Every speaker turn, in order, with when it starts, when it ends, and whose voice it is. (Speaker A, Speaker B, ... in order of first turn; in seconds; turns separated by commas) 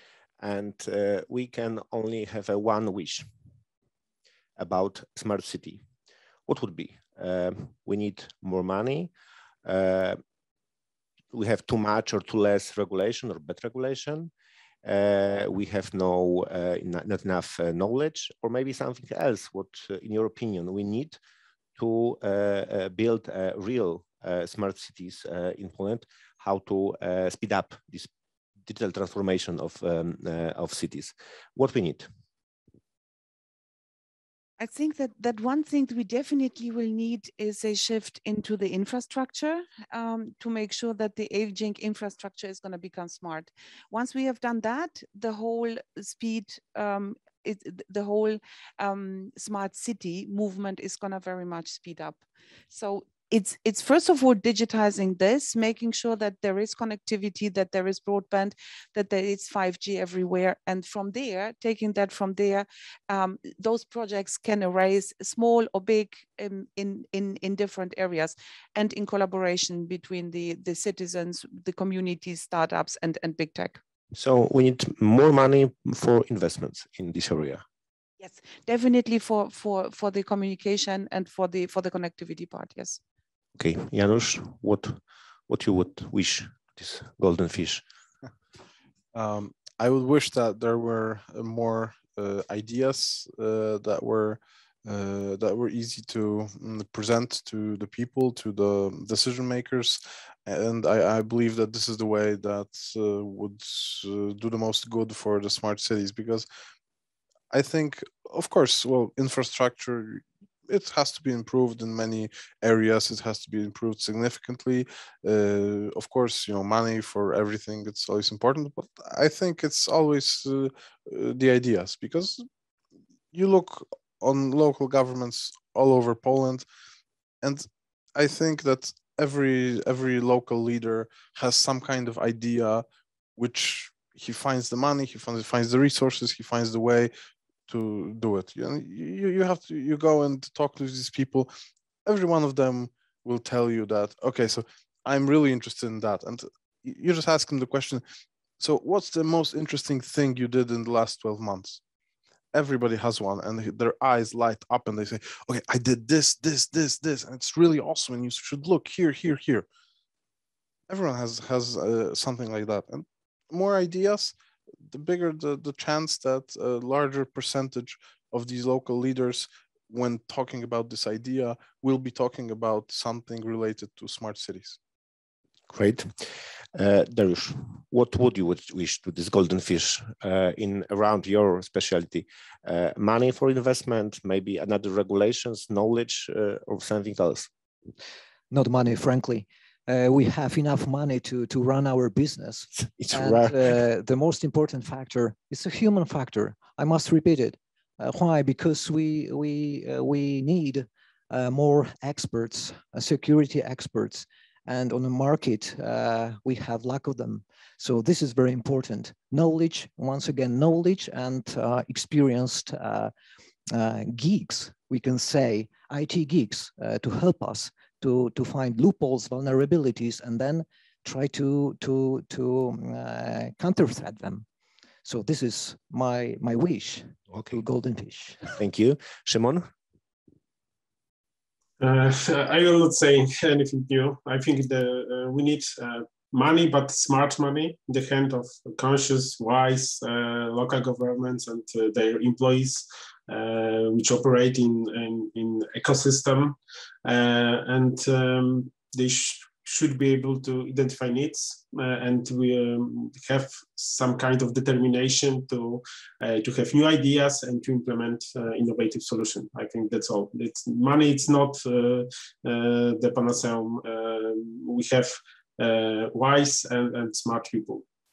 Speaker A: 0.4-3.3, Speaker A: 4.6-5.8, Speaker A: 6.5-9.1, Speaker A: 9.6-10.2, Speaker A: 11.3-14.3, Speaker A: 14.8-21.2, Speaker A: 21.8-28.1, Speaker A: 28.6-32.1, Speaker B: 34.6-73.8, Speaker A: 74.1-77.6, Speaker B: 78.2-83.0, Speaker A: 83.6-87.8, Speaker C: 89.1-106.5, Speaker C: 107.5-122.5, Speaker C: 123.3-126.6, Speaker C: 127.4-132.8, Speaker C: 133.4-137.1, Speaker C: 137.7-141.5, Speaker C: 142.1-148.0, Speaker C: 148.6-151.8, Speaker C: 152.5-159.7, Speaker C: 160.9-164.3, Speaker C: 164.9-174.8, Speaker A: 175.7-187.5, Speaker D: 188.5-213.1, Speaker A: 192.8-193.7, Speaker D: 213.7-224.4, Speaker D: 225.1-228.5, Speaker A: 228.5-229.7, Speaker E: 231.8-267.9